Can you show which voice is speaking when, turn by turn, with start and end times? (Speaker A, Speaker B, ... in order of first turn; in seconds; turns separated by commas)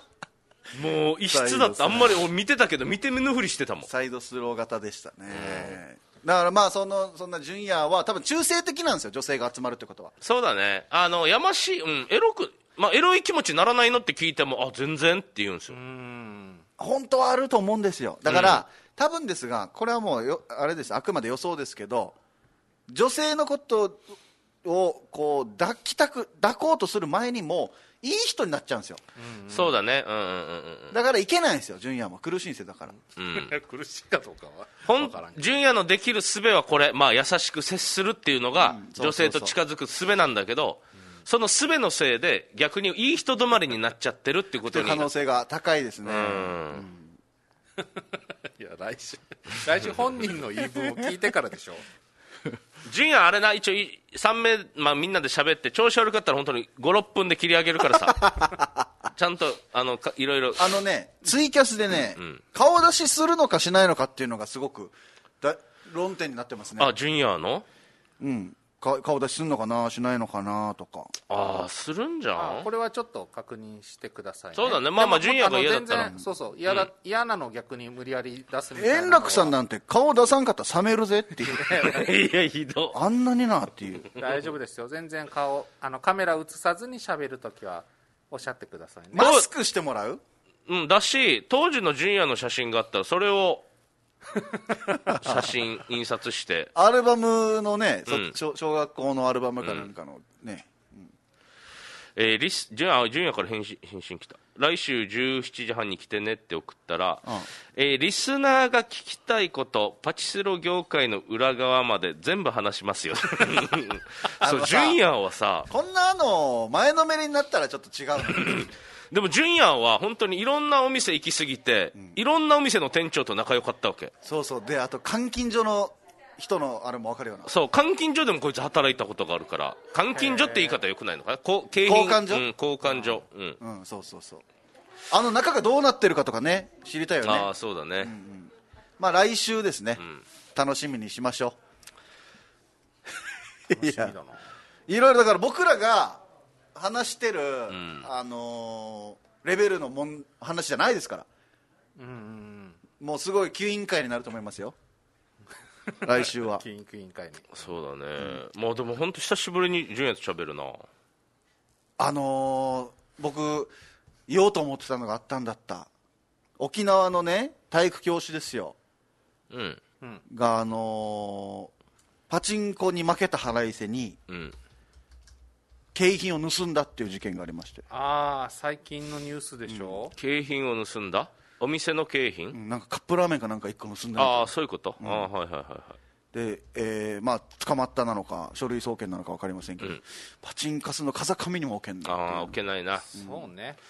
Speaker A: 0.7-3.9, Speaker B: 1.3-2.3, Speaker B: 3.8-10.1, Speaker A: 5.3-5.8, Speaker A: 10.2-15.8, Speaker C: 15.7-16.6, Speaker B: 16.8-22.2, Speaker A: 18.3-18.6, Speaker B: 22.9-24.1, Speaker B: 24.6-29.0, Speaker C: 29.2-29.7, Speaker A: 29.5-31.0, Speaker B: 30.9-33.0, Speaker A: 33.2-33.5, Speaker C: 33.3-35.5, Speaker A: 34.9-45.1, Speaker B: 38.6-39.6, Speaker B: 44.7-47.1, Speaker A: 46.0-46.9, Speaker C: 48.6-51.8, Speaker A: 52.8-58.5, Speaker A: 59.1-60.8, Speaker B: 60.6-66.9, Speaker A: 66.8-67.7, Speaker B: 68.2-71.1, Speaker A: 71.3-72.7, Speaker C: 72.4-79.6, Speaker A: 74.5-76.2, Speaker B: 78.8-81.7, Speaker C: 81.5-82.1, Speaker A: 81.7-83.0, Speaker B: 82.9-84.1, Speaker C: 84.2-89.3, Speaker B: 89.1-90.2, Speaker A: 89.2-89.5, Speaker A: 90.7-93.7, Speaker A: 95.1-96.7, Speaker B: 96.8-101.1, Speaker A: 98.1-98.3, Speaker A: 102.2-115.7, Speaker B: 114.4-115.0, Speaker B: 115.7-118.7, Speaker A: 118.3-124.1, Speaker B: 124.2-127.5, Speaker A: 127.5-133.6, Speaker C: 130.2-130.8, Speaker B: 131.8-132.5, Speaker B: 133.6-134.4, Speaker B: 135.1-137.5, Speaker A: 137.2-138.1, Speaker B: 138.0-140.0, Speaker B: 140.6-141.6, Speaker B: 143.7-144.2, Speaker C: 143.7-144.5, Speaker B: 144.9-146.2, Speaker B: 146.8-151.3, Speaker A: 147.7-148.1, Speaker C: 152.0-152.8, Speaker B: 153.0-154.8, Speaker B: 156.0-156.6, Speaker C: 156.4-157.4, Speaker A: 157.5-160.9, Speaker B: 162.0-163.7, Speaker B: 164.3-165.9, Speaker B: 166.6-168.8, Speaker A: 169.5-169.8, Speaker B: 170.3-171.7, Speaker B: 172.3-174.2, Speaker A: 174.3-174.6, Speaker B: 175.9-177.8, Speaker C: 177.9-180.1, Speaker B: 179.7-180.0, Speaker A: 180.2-182.6, Speaker B: 182.5-185.3, Speaker A: 184.2-186.0, Speaker B: 186.3-192.5, Speaker A: 192.1-193.1, Speaker C: 193.1-193.8, Speaker B: 193.2-193.4